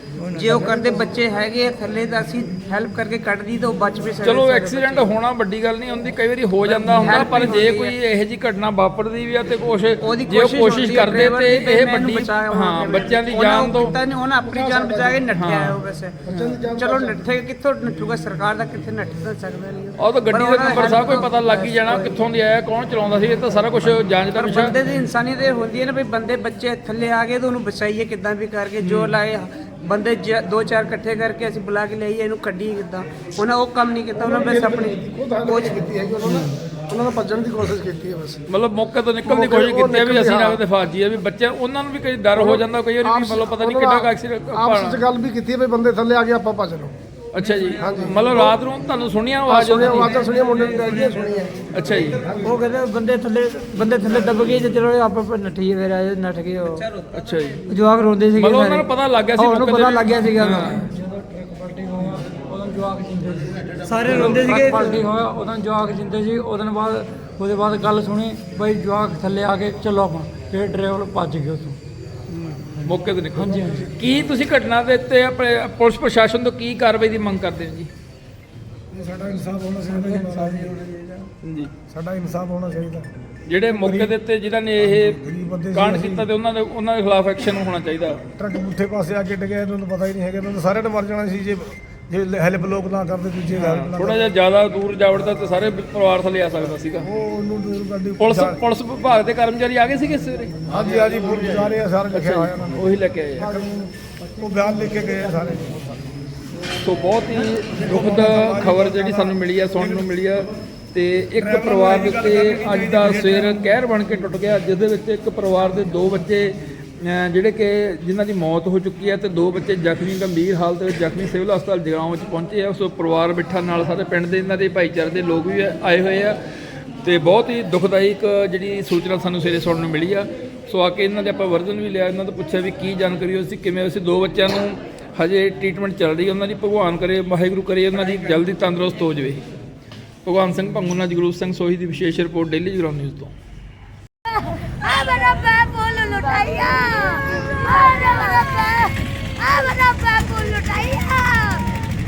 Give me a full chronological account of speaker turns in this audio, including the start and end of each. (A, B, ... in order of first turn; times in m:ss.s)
0:00.2-0:00.7 A
0:00.3-0:05.1 B
0:04.2-0:14.0 C
0:06.6-0:07.9 B
0:10.0-0:16.2 B
0:14.5-0:15.2 D
0:15.3-0:16.6 C
0:16.4-0:17.2 D
0:16.7-0:22.2 B
0:20.0-0:24.8 C
0:24.3-0:36.0 B
0:28.8-0:29.1 C
0:34.1-0:38.4 D
0:36.2-0:36.5 C
0:38.5-0:45.0 C
0:39.2-0:40.6 D
0:42.4-0:46.9 D
0:47.3-0:50.8 C
0:47.4-0:48.4 A
0:47.8-0:48.6 D
0:49.4-0:52.7 D
0:50.0-0:51.3 A
0:51.7-0:52.2 C
0:52.0-0:52.3 B
0:52.4-0:56.8 A
0:56.8-0:57.1 B
0:57.1-0:57.6 C
0:57.7-1:00.8 A
0:58.4-1:00.8 C
1:00.8-1:11.8 E
1:03.8-1:05.0 A
1:04.1-1:04.5 C
1:12.3-1:12.7 A
1:12.8-1:17.9 C
1:13.3-1:13.9 E
1:13.6-1:14.0 D
1:18.9-1:21.0 D
1:19.9-1:21.3 A
1:21.4-1:21.7 C
1:21.9-1:24.1 D
1:23.5-1:25.2 C
1:24.8-1:26.3 D
1:25.7-1:28.2 C
1:28.3-1:34.2 D
1:33.5-1:37.1 C
1:37.0-1:38.6 D
1:38.2-1:40.6 C
1:40.6-1:46.0 D
1:42.1-1:43.5 C
1:46.8-2:06.4 C
1:47.6-1:50.4 D
1:51.4-1:53.7 D
2:07.0-2:19.4 C
2:20.2-2:23.3 C
2:24.8-2:31.6 F